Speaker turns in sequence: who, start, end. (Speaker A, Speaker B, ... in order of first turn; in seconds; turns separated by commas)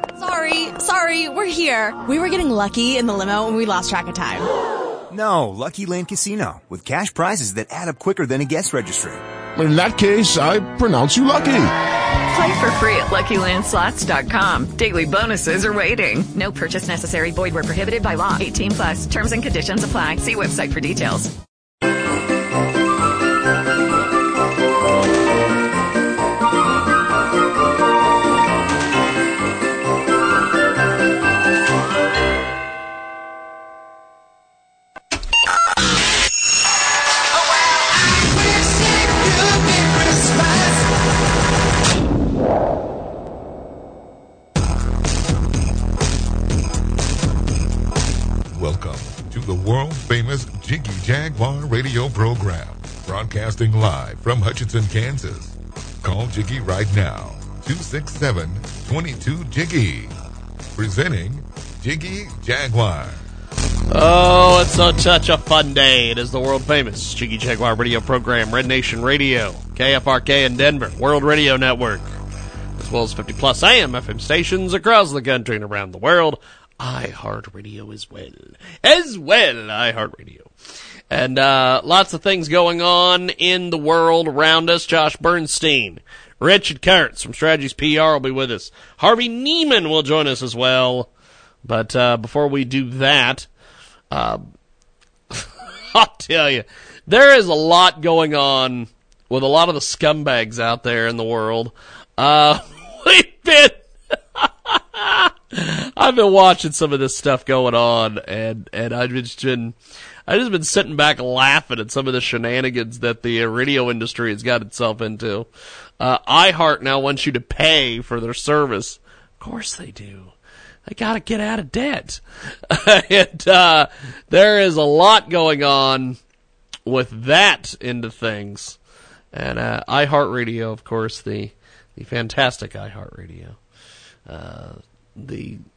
Speaker A: 0.2-4.5, Speaker B: 5.1-9.2, Speaker C: 9.5-11.7, Speaker D: 12.3-21.3, Speaker E: 48.5-60.1, Speaker E: 60.8-63.2, Speaker F: 63.9-72.1, Speaker F: 72.8-80.5, Speaker F: 81.1-91.1, Speaker F: 91.6-93.5, Speaker F: 94.1-94.5, Speaker F: 95.3-103.8, Speaker F: 104.3-109.8, Speaker F: 110.3-115.5, Speaker F: 116.0-120.3, Speaker F: 120.8-126.2, Speaker F: 126.8-128.8, Speaker F: 129.3-133.6, Speaker F: 134.2-135.6